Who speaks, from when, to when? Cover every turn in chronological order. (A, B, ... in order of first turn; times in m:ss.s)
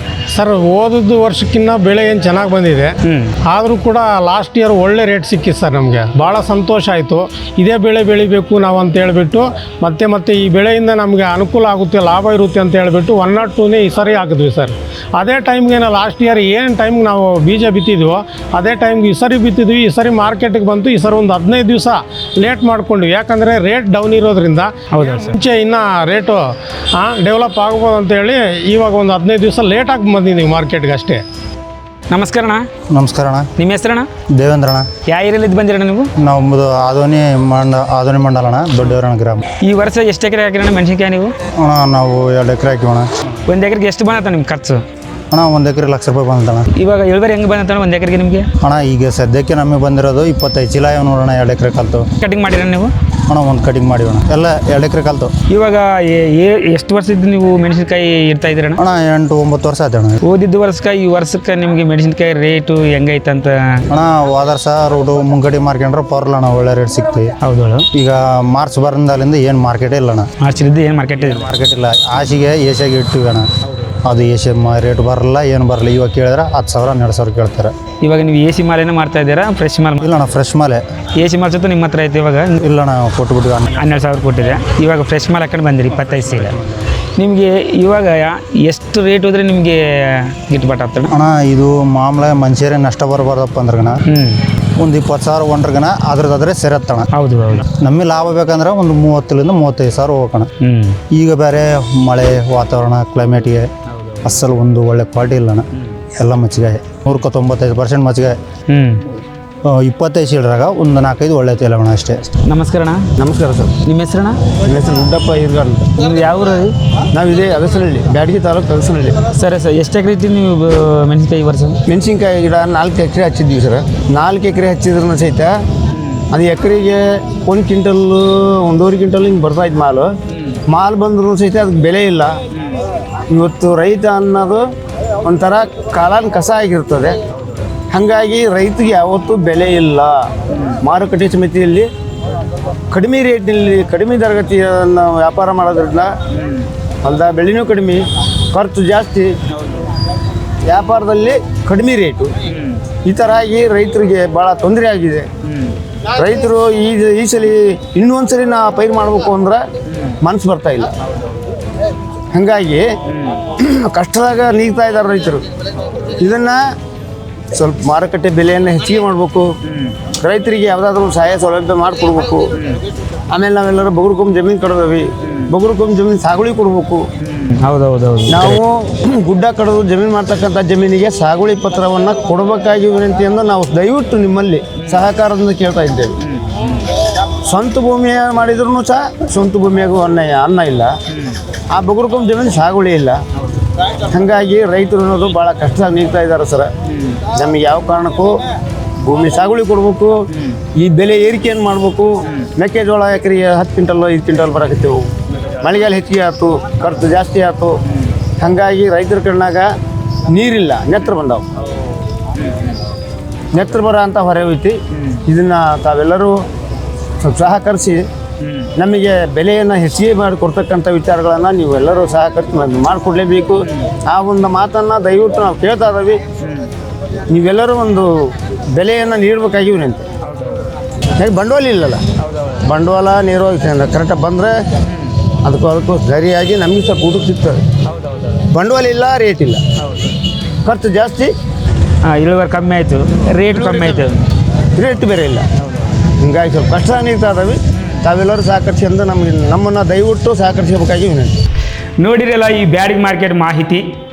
0:00.3-0:03.0 A
0:03.0-0:03.4 B
0:03.5-0:26.4 A
0:24.9-0:25.4 B
0:27.0-0:31.2 A
0:32.1-0:32.7 B
0:32.9-0:33.5 C
0:33.6-0:34.1 B
0:34.3-0:34.9 C
0:35.1-0:36.1 B
0:36.2-0:39.4 C
0:39.6-0:41.3 B
0:41.6-0:43.1 C
0:43.5-0:44.8 B
0:45.3-0:46.7 C
0:46.8-0:48.5 B
0:48.6-0:52.1 C
0:52.2-0:52.9 B
0:53.3-0:55.3 C
0:55.5-0:58.8 B
0:58.8-1:00.2 C
1:00.2-1:03.8 B
1:03.9-1:07.3 C
1:07.4-1:07.9 B
1:07.9-1:10.3 C
1:10.4-1:11.5 B
1:11.2-1:13.5 C
1:14.0-1:17.7 C
1:18.0-1:20.1 B
1:20.0-1:20.8 C
1:21.2-1:22.6 B
1:22.6-1:23.8 C
1:23.8-1:26.6 B
1:27.2-1:31.2 B
1:31.1-1:34.0 C
1:34.1-1:34.4 B
1:34.8-1:37.1 C
1:37.1-1:37.7 B
1:37.7-1:40.5 C
1:40.6-1:41.0 B
1:41.1-1:43.7 C
1:44.2-1:48.4 C
1:48.7-1:49.0 B
1:49.6-1:52.3 C
1:52.5-1:53.1 B
1:53.2-1:53.7 D
1:53.8-1:54.4 B
1:54.6-1:55.9 D
1:56.0-1:56.7 B
1:57.1-1:59.2 D
1:59.3-2:01.8 B
2:01.9-2:05.6 D
2:06.0-2:06.2 B
2:06.3-2:10.1 D
2:10.3-2:10.6 B
2:10.7-2:12.4 D
2:13.3-2:14.6 D
2:15.2-2:17.2 D
2:17.9-2:20.2 D
2:20.8-2:21.9 D
2:22.9-2:26.1 D
2:26.4-2:26.7 B
2:27.0-2:29.3 D
2:29.5-2:29.9 B
2:30.6-2:32.3 D
2:32.5-2:32.8 B
2:33.0-2:35.3 D
2:35.5-2:35.8 B
2:36.1-2:39.6 D
2:40.2-2:40.9 D
2:42.3-2:42.9 D
2:43.1-2:43.4 B
2:43.6-2:45.5 D
2:46.2-2:46.6 D
2:47.5-2:49.5 D
2:49.7-2:49.9 B
2:50.2-2:52.5 D
2:53.3-2:57.0 D
2:57.2-2:58.6 B
2:58.3-3:06.1 D
3:06.3-3:06.8 B
3:07.4-3:10.9 D
3:11.7-3:13.2 D
3:14.1-3:16.7 D
3:17.3-3:18.3 D
3:19.0-3:20.2 D
3:20.8-3:25.1 D
3:25.6-3:27.7 D
3:28.4-3:29.7 D
3:30.3-3:31.4 D
3:32.4-3:32.7 B
3:33.5-3:36.4 D
3:37.2-3:38.1 D
3:38.4-3:38.7 B
3:38.8-3:46.2 D
3:46.4-3:46.7 B
3:47.3-3:48.1 D
3:48.7-3:50.0 D
3:50.3-3:50.6 B
3:51.2-3:52.0 D
3:52.7-3:54.6 D
3:55.4-3:57.6 D
3:58.0-3:58.3 B
3:58.5-3:59.6 D
3:59.8-4:00.2 B
4:00.6-4:01.3 D
4:02.0-4:04.2 B
4:03.5-4:04.1 D
4:04.8-4:05.5 D
4:06.2-4:11.4 D
4:07.8-4:08.0 B
4:12.0-4:13.8 B